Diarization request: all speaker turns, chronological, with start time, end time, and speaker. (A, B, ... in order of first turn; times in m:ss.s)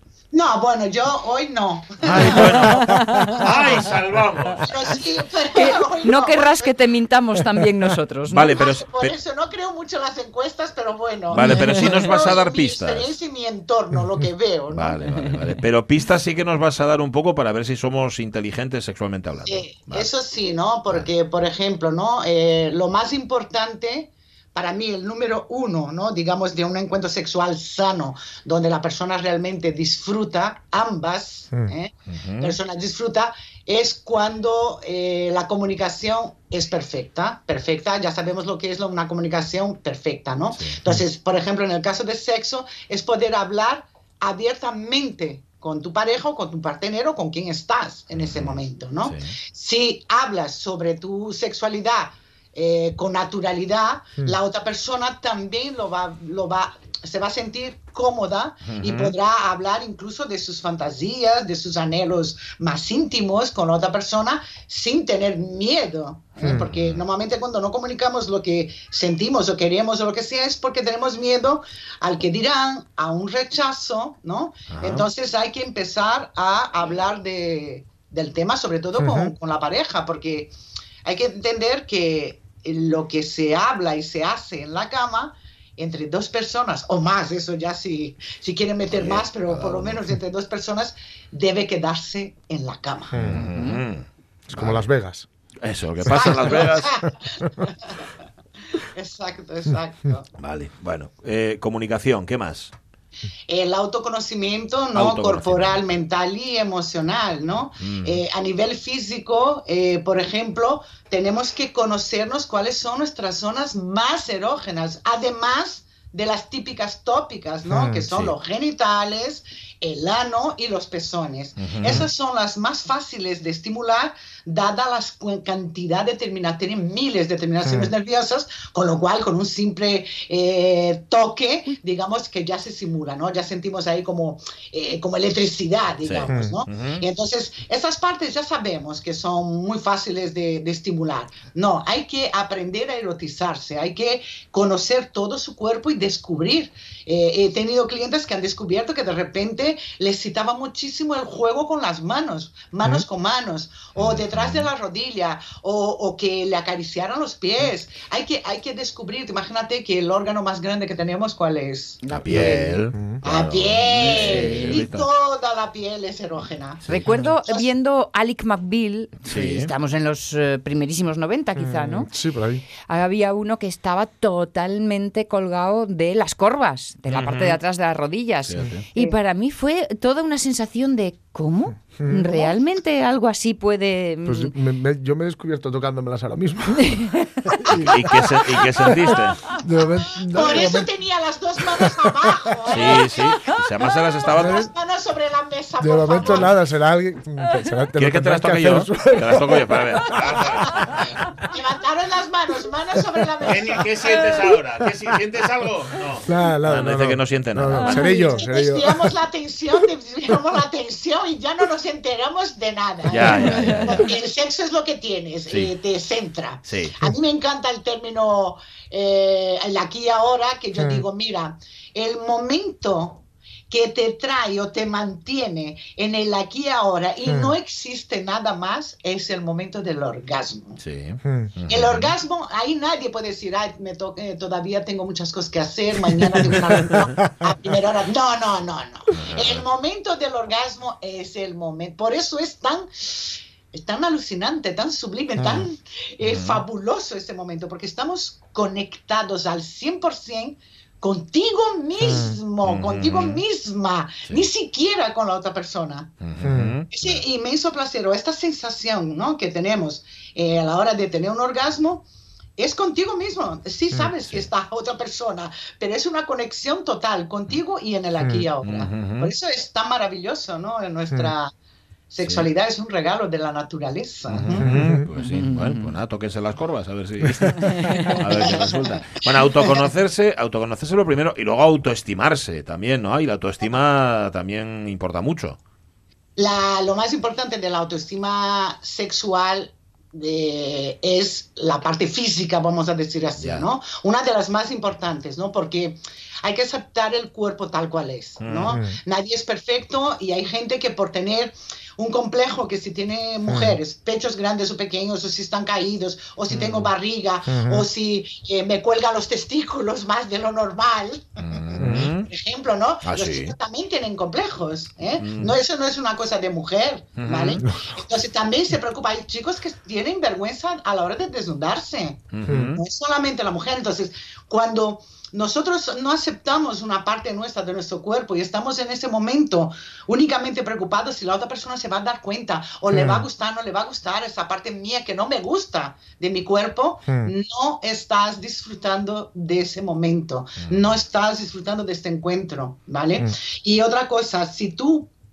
0:00.3-0:02.7 A
0:02.0-0:04.7 B
0:02.6-0:03.2 C
0:02.6-0:03.5 D
0:04.6-0:06.7 A
0:05.5-0:08.6 D
0:08.3-0:09.1 B
0:08.5-0:15.0 A
0:11.3-0:13.1 B
0:11.4-0:12.1 D
0:14.7-0:20.1 B
0:15.1-0:15.4 D
0:19.4-1:20.5 A
0:32.1-0:32.6 B
0:48.1-0:49.3 B
0:58.6-0:59.1 B
1:06.4-1:06.7 C
1:06.7-1:07.0 B
1:14.7-1:15.1 B
1:19.0-1:19.3 C
1:21.0-1:33.2 A
1:28.9-1:30.1 B
1:33.1-1:33.5 C
1:33.1-1:34.9 B
1:33.5-1:33.8 D
1:34.5-1:35.3 C
1:35.6-1:37.1 B
1:36.0-1:38.0 A
1:36.1-1:36.6 C
1:38.7-1:40.3 A
1:40.4-1:42.7 B
1:43.5-2:42.5 A
1:44.9-1:46.0 B
1:47.8-1:48.2 B
1:57.7-1:58.0 C
2:01.6-2:02.0 B
2:07.6-2:07.9 C
2:16.0-2:17.0 B
2:16.3-2:16.6 C
2:34.0-2:34.7 B
2:42.0-2:42.9 D
2:42.1-2:45.1 B
2:42.9-2:43.2 C
2:43.2-2:46.8 A
2:44.0-2:44.8 D
2:46.8-2:47.2 B
2:46.9-2:52.1 D
2:47.1-2:47.3 C
2:49.2-2:49.7 B
2:51.5-2:52.6 C
2:52.9-3:04.5 D
2:57.1-2:57.6 B
2:58.5-2:58.8 B
3:02.0-3:02.4 C
3:04.2-3:10.9 C
3:06.8-3:07.7 D
3:07.8-3:09.6 B
3:10.3-3:13.2 A
3:11.7-3:12.4 C
3:12.7-3:14.6 B
3:14.3-3:16.6 A
3:14.3-3:14.7 C
3:15.8-3:21.3 C
3:18.0-3:21.0 B
3:21.5-3:24.0 A
3:23.4-3:28.1 B
3:26.2-3:29.1 C
3:27.7-3:28.4 D
3:28.0-3:50.8 A
3:33.1-3:34.1 B
3:33.3-3:34.1 D
3:36.6-3:37.0 B
3:40.8-3:41.0 C
3:47.2-3:47.5 C
3:50.8-3:52.1 B
3:51.2-3:51.5 C
3:51.7-4:16.1 A
3:56.2-3:57.7 C
3:59.1-3:59.6 B
4:05.4-4:05.7 C
4:06.2-4:06.6 B
4:12.0-4:12.4 C
4:12.6-4:13.4 B
4:16.2-4:17.2 B
4:16.4-4:16.8 C
4:16.9-4:31.5 A
4:28.2-4:28.4 C
4:28.6-4:29.3 B
4:32.1-4:34.7 A
4:32.2-4:32.5 B
4:34.3-4:45.6 B
4:34.6-4:35.1 C
4:35.2-4:35.9 D
4:37.2-4:38.1 C
4:37.5-4:38.6 D
4:46.4-5:22.2 A
4:53.4-4:53.7 B
4:58.4-4:58.8 B
4:58.7-4:59.0 C
5:03.5-5:03.8 C
5:06.5-5:06.9 B
5:07.4-5:07.9 C
5:11.4-5:12.3 B
5:11.8-5:12.1 C
5:13.0-5:13.5 B
5:15.2-5:15.6 B
5:17.2-5:17.6 B
5:17.6-5:18.0 C
5:22.3-5:22.8 B
5:22.4-5:22.8 C
5:22.8-5:45.1 A
5:32.9-5:33.2 C
5:37.1-5:37.3 C
5:40.6-5:41.0 B